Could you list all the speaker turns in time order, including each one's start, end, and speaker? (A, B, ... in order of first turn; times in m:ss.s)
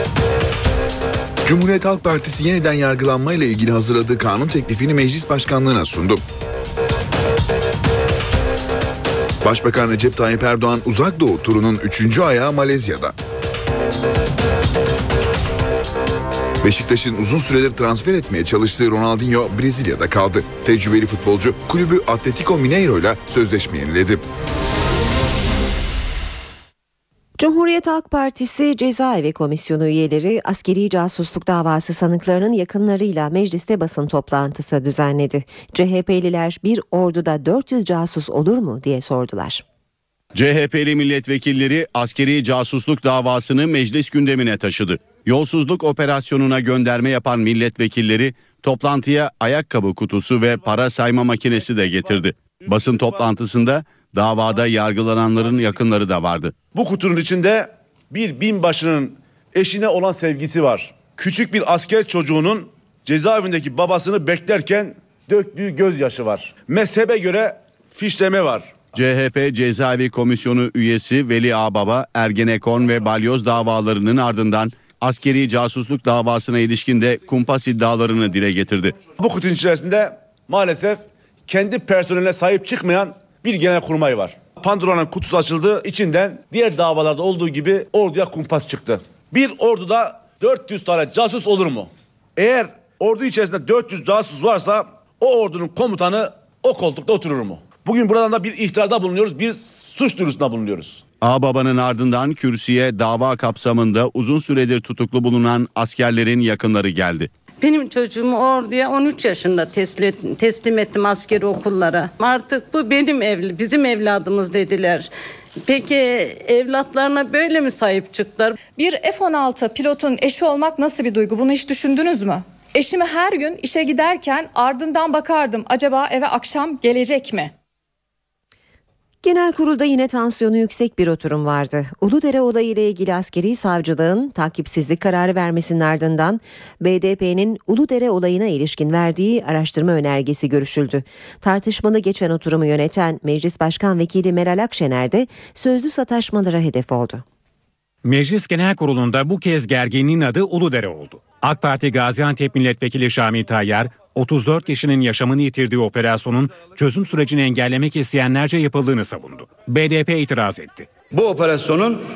0:01.4-0:06.2 A
0:09.4-0:13.2 A
0:16.6-0:24.2 A
0:27.4-0:39.6 B
0:40.4-0:56.6 C
0:56.7-1:08.8 D
1:08.9-1:19.0 C
1:19.1-1:41.0 D
1:41.2-1:47.3 C
1:47.6-1:55.1 E
1:55.6-1:58.6 E
1:58.8-2:07.5 F
2:09.2-2:27.2 B
2:28.0-2:40.9 G